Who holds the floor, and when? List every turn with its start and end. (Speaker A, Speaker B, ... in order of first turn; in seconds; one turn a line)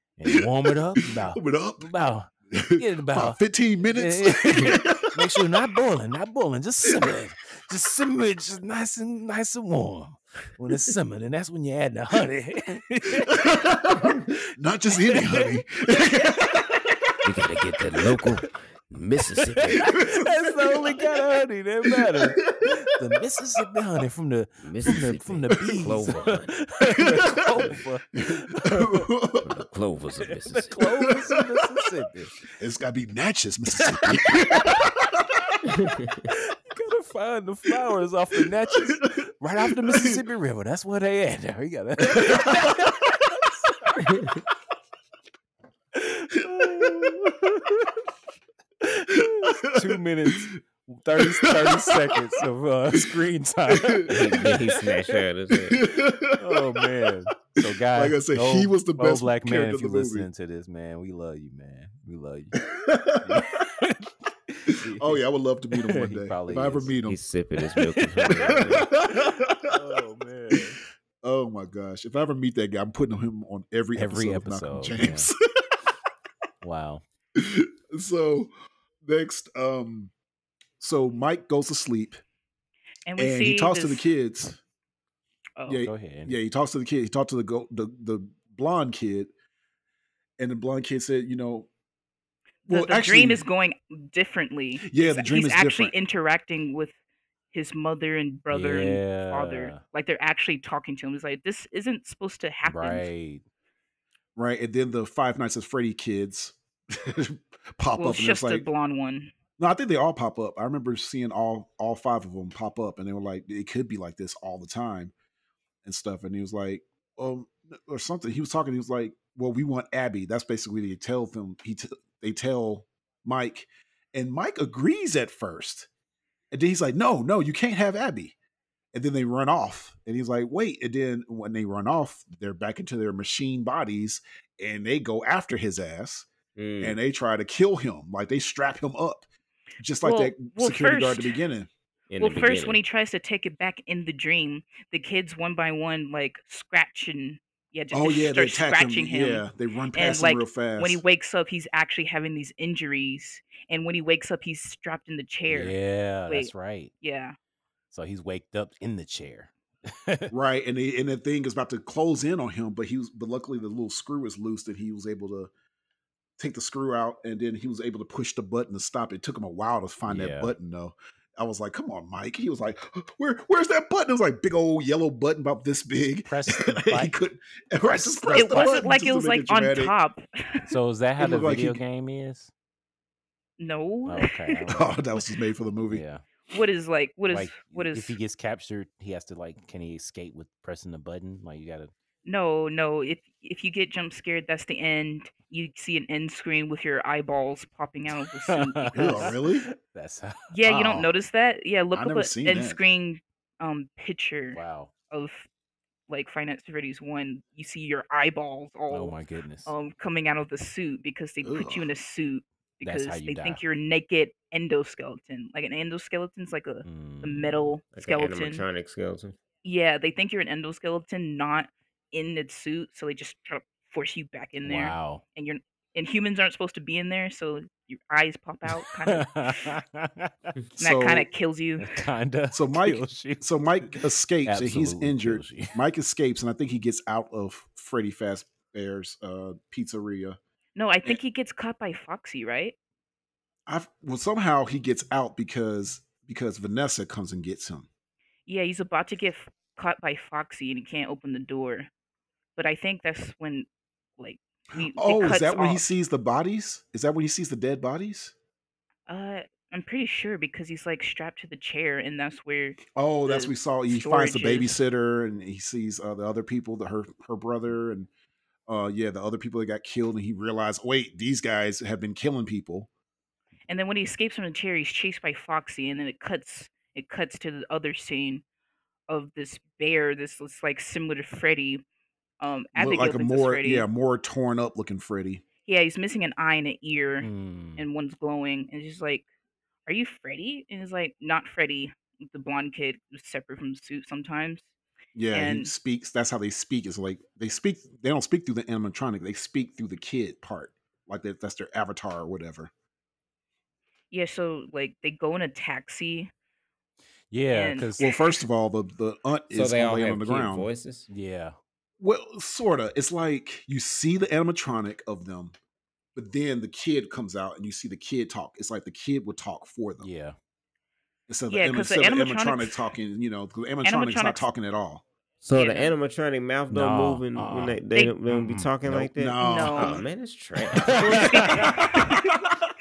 Speaker A: 0.2-13.4
Speaker B: 1.0-1.9
Speaker B: 2.5-5.4
Speaker B: 6.8-7.1
Speaker B: 13.3-17.2
Speaker A: 14.9-15.5
Speaker C: 17.2-20.0
Speaker A: 18.0-18.4
Speaker A: 19.4-29.1
Speaker B: 19.8-21.1
Speaker B: 21.9-22.8
Speaker C: 24.6-26.5
Speaker B: 26.9-29.6
Speaker C: 29.4-30.9
Speaker A: 30.2-32.4
Speaker B: 31.0-31.6
Speaker B: 32.5-35.6
Speaker A: 33.8-34.5
Speaker C: 35.6-36.3
Speaker A: 36.2-44.0
Speaker B: 38.7-40.2
Speaker B: 42.1-43.4
Speaker C: 44.0-44.4
Speaker A: 45.9-47.9
Speaker B: 46.4-47.4
Speaker A: 48.8-54.5
Speaker B: 49.1-50.3
Speaker B: 51.2-52.4
Speaker B: 52.9-54.5
Speaker C: 54.1-55.8
Speaker B: 55.6-56.8
Speaker A: 56.4-62.6
Speaker B: 57.6-60.3
Speaker B: 62.6-63.6
Speaker A: 63.2-67.0
Speaker B: 64.7-67.2
Speaker C: 67.0-68.9
Speaker A: 67.6-70.8
Speaker B: 68.4-69.7
Speaker B: 71.2-75.4
Speaker A: 74.0-75.3
Speaker A: 76.6-77.0
Speaker B: 77.3-80.1
Speaker B: 80.8-82.2
Speaker D: 83.0-84.0
Speaker B: 83.2-84.6
Speaker D: 85.6-85.8
Speaker B: 85.7-89.3
Speaker A: 85.8-86.4
Speaker B: 90.4-91.7
Speaker D: 92.7-96.9
Speaker B: 92.7-93.4
Speaker B: 94.8-95.9
Speaker D: 97.5-103.1
Speaker A: 98.5-99.8
Speaker A: 102.6-103.4
Speaker B: 104.3-108.7
Speaker D: 108.0-109.3
Speaker B: 109.6-115.1
Speaker B: 115.8-125.9
Speaker B: 126.5-128.3
Speaker B: 128.9-136.3
Speaker C: 136.6-137.0
Speaker B: 136.8-139.2
Speaker B: 139.8-141.7
Speaker D: 140.0-141.3
Speaker C: 142.1-142.8
Speaker D: 142.2-155.7
Speaker B: 147.9-151.0
Speaker A: 155.5-156.9
Speaker D: 156.3-157.3
Speaker A: 157.9-160.3
Speaker B: 160.3-165.5
Speaker B: 166.4-179.9
Speaker A: 170.1-170.5
Speaker A: 176.2-177.1
Speaker A: 177.8-178.8
Speaker D: 178.3-180.7
Speaker A: 180.6-182.5
Speaker B: 181.2-181.8
Speaker D: 183.6-184.6
Speaker A: 184.1-185.1
Speaker B: 184.7-186.0
Speaker A: 185.9-186.2
Speaker D: 186.5-188.2
Speaker A: 187.3-191.9
Speaker D: 192.2-199.3
Speaker A: 198.1-200.5
Speaker B: 198.9-199.6
Speaker D: 200.5-204.6
Speaker B: 200.6-201.1
Speaker B: 201.9-202.8
Speaker A: 204.5-204.9
Speaker D: 205.1-205.5
Speaker D: 206.1-218.7
Speaker A: 208.9-209.7
Speaker B: 211.4-211.9
Speaker A: 212.8-213.6
Speaker A: 216.8-217.8
Speaker C: 217.9-219.4
Speaker D: 219.6-229.7
Speaker A: 224.6-225.2
Speaker A: 228.7-230.5
Speaker B: 230.8-231.3
Speaker D: 230.8-231.9
Speaker A: 231.8-235.8
Speaker B: 232.5-240.4
Speaker D: 240.8-242.7
Speaker B: 243.7-247.9
Speaker D: 248.5-251.9
Speaker D: 252.6-255.8
Speaker B: 254.8-258.3
Speaker D: 259.1-264.7
Speaker B: 262.9-268.1
Speaker B: 268.7-272.9
Speaker D: 273.7-278.4
Speaker D: 279.1-281.8
Speaker D: 282.4-283.9
Speaker B: 282.7-285.4
Speaker D: 285.6-289.2
Speaker A: 287.2-287.9
Speaker D: 289.9-294.7
Speaker B: 295.1-302.7
Speaker D: 295.3-295.7
Speaker D: 304.1-306.3
Speaker A: 307.3-308.1
Speaker D: 307.5-308.3
Speaker B: 308.0-310.7
Speaker C: 309.5-311.1
Speaker A: 311.1-311.6
Speaker B: 312.0-315.5
Speaker B: 316.1-320.1
Speaker A: 320.0-320.4
Speaker B: 321.3-325.0
Speaker D: 321.5-322.8
Speaker D: 323.8-324.5
Speaker C: 325.4-331.4
Speaker D: 325.5-325.9
Speaker A: 326.7-329.1
Speaker B: 328.9-330.0
Speaker D: 329.4-330.0
Speaker A: 330.8-331.7
Speaker D: 330.9-332.3
Speaker B: 331.6-332.4